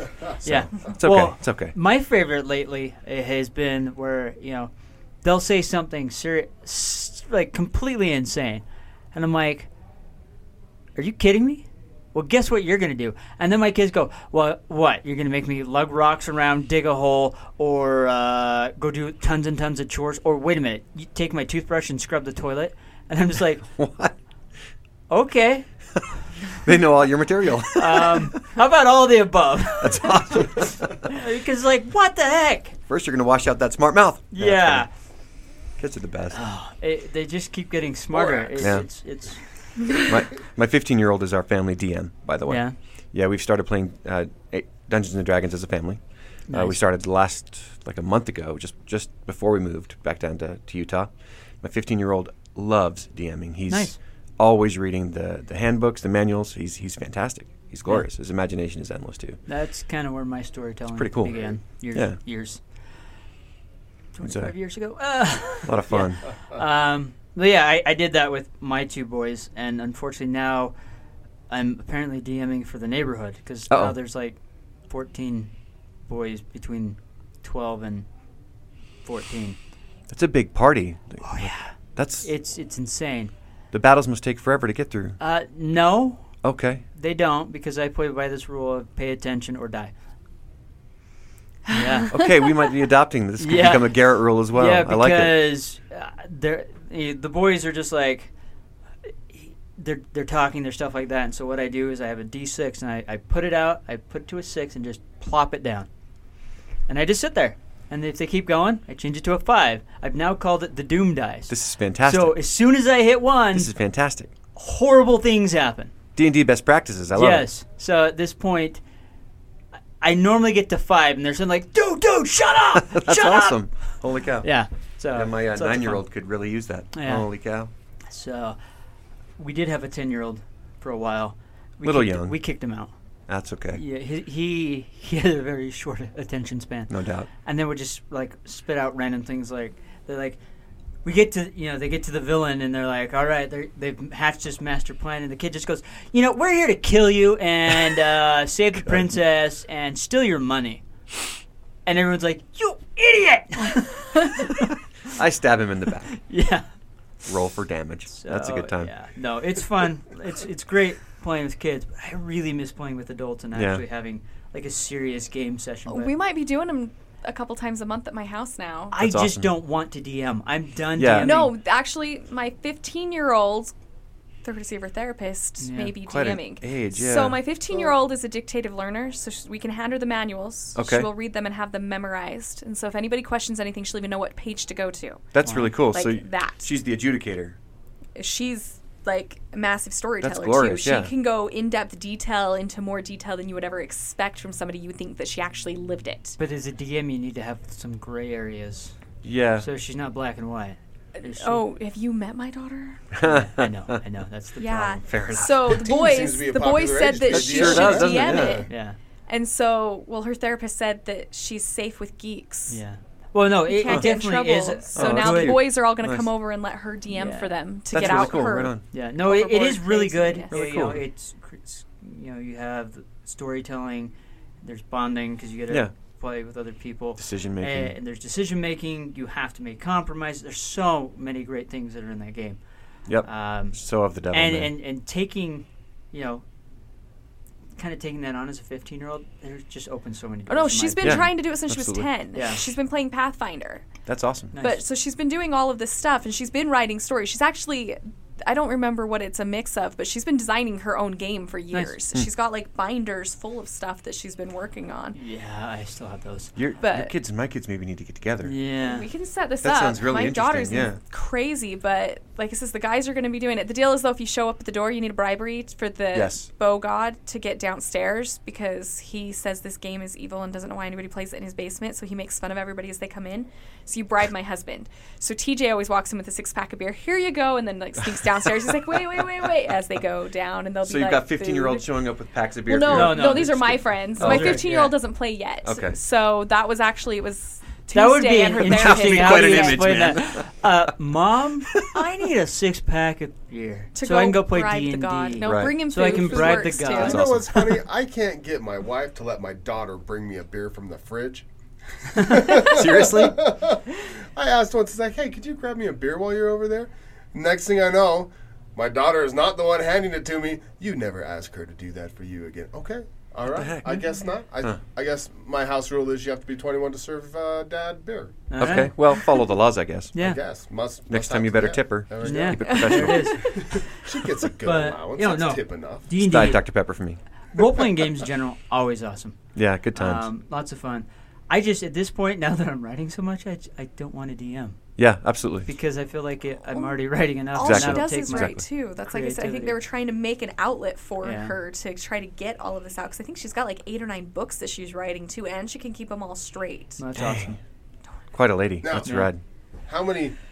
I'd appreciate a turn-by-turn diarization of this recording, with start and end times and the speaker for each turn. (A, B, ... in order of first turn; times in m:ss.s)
0:00.4-0:01.7 A
0:00.4-0:04.7 B
0:05.2-0:09.7 B
0:11.0-0:23.6 B
0:23.6-0:24.1 A
0:25.1-0:25.6 B
0:26.6-0:28.3 A
0:27.7-0:32.8 B
0:29.8-0:31.1 A
0:32.9-0:34.9 A
0:34.3-0:34.9 B
0:35.8-0:36.4 A
0:36.3-0:39.9 B
0:38.1-0:38.9 C
0:38.6-0:38.8 A
0:40.0-0:59.4 A
0:42.5-0:42.7 B
0:46.5-0:46.8 B
0:53.7-0:54.0 B
0:59.5-1:02.6 B
1:00.9-1:02.2 A
1:04.1-1:10.7 B
1:04.2-1:04.5 A
1:05.6-1:06.2 A
1:11.5-1:14.4 B
1:13.7-1:14.0 A
1:14.9-1:15.5 B
1:16.0-1:18.0 B
1:19.0-1:19.6 B
1:20.1-1:22.3 A
1:21.2-1:23.3 B
1:23.7-1:25.2 A
1:25.2-1:26.3 B
1:26.4-1:26.8 A
1:26.9-1:29.9 B
1:31.7-1:32.1 B
1:32.1-1:35.4 A
1:33.4-1:33.9 B
1:34.5-1:38.3 B
1:39.3-1:45.9 B
1:46.9-1:53.7 B
1:51.5-1:52.4 A
1:53.5-1:54.3 A
1:54.6-1:55.9 B
1:56.2-1:57.5 A
1:57.1-1:58.8 B
2:00.0-2:03.6 B
2:02.7-2:04.5 A
2:04.4-2:06.0 B
2:05.1-2:07.7 A
2:06.9-2:07.3 B
2:08.1-2:08.6 B
2:09.4-2:12.9 B
2:11.8-2:12.4 A
2:13.3-2:13.8 A
2:13.7-2:16.9 B
2:16.9-2:17.3 A
2:17.4-2:20.4 B
2:21.0-2:30.8 B
2:28.8-2:29.2 A
2:31.8-2:34.7 B
2:34.4-2:36.2 A
2:36.2-2:36.6 B
2:37.2-2:38.9 A
2:38.1-2:46.1 B
2:43.5-2:43.8 A
2:45.9-2:49.0 D
2:48.9-2:51.5 B
2:48.9-2:49.5 A
2:51.0-2:51.4 A
2:51.2-2:53.7 D
2:54.4-3:05.3 D
2:55.6-2:55.9 B
2:56.0-2:57.4 A
3:00.8-3:01.1 A
3:05.3-3:07.6 A
3:05.4-3:05.7 B
3:05.9-3:06.7 D
3:08.1-3:16.4 D
3:10.2-3:11.1 A
3:16.4-3:18.9 B
3:19.2-3:19.7 A
3:19.6-3:21.6 B
3:21.1-3:23.0 D
3:23.1-3:24.0 A
3:23.2-3:25.4 B
3:24.6-3:28.7 D
3:25.0-3:25.8 A
3:25.7-3:28.6 C
3:27.3-3:28.6 A
3:27.7-3:27.9 B
3:28.7-3:29.0 B
3:29.3-3:32.8 D
3:32.7-3:35.6 B
3:33.7-3:40.5 D
3:33.9-3:34.1 A
3:35.0-3:36.3 A
3:37.1-3:52.6 B
3:37.9-3:38.8 A
3:40.5-3:41.0 A
3:47.2-3:47.9 A
3:53.1-3:54.7 A
3:53.2-3:53.8 B
3:54.3-3:56.4 B
3:57.8-4:01.3 B
4:00.5-4:03.8 D
4:01.0-4:02.1 A
4:02.3-4:02.6 B
4:04.1-4:04.5 A
4:04.5-4:04.8 B
4:04.6-4:15.2 D
4:11.7-4:12.0 B
4:15.1-4:16.5 B
4:16.6-4:18.5 A
4:16.8-4:17.1 D
4:18.4-4:19.1 B
4:18.8-4:41.9 D
4:19.6-4:21.0 A
4:26.1-4:26.5 A
4:40.8-4:44.6 A
4:42.6-4:50.2 D
4:42.9-4:45.0 B
4:45.6-4:46.0 A
4:47.9-4:57.2 B
4:48.5-4:50.9 A
4:51.7-4:52.0 A
4:54.0-4:57.2 D
4:55.4-4:55.8 A
4:56.1-5:01.4 C
4:56.9-4:57.7 A
5:02.1-5:18.8 C
5:02.2-5:03.2 B
5:02.6-5:03.4 A
5:13.4-5:14.1 A
5:18.5-5:19.0 B
5:18.6-5:20.1 A
5:20.1-5:20.4 B
5:20.2-5:26.1 C
5:21.1-5:23.6 A
5:22.2-5:23.8 B
5:24.6-5:26.7 B
5:26.2-5:27.2 A
5:27.5-5:29.4 B
5:29.5-5:30.3 A
5:29.9-5:34.8 B
5:35.0-5:35.7 A
5:35.6-5:39.8 B
5:36.7-5:37.0 D
5:37.5-5:47.0 D
5:37.6-5:38.6 A
5:41.2-5:41.5 B
5:47.0-5:47.6 B
5:47.1-5:47.5 A
5:48.3-5:49.4 A
5:48.8-5:49.3 C
5:49.0-5:49.3 B
5:49.9-5:50.4 C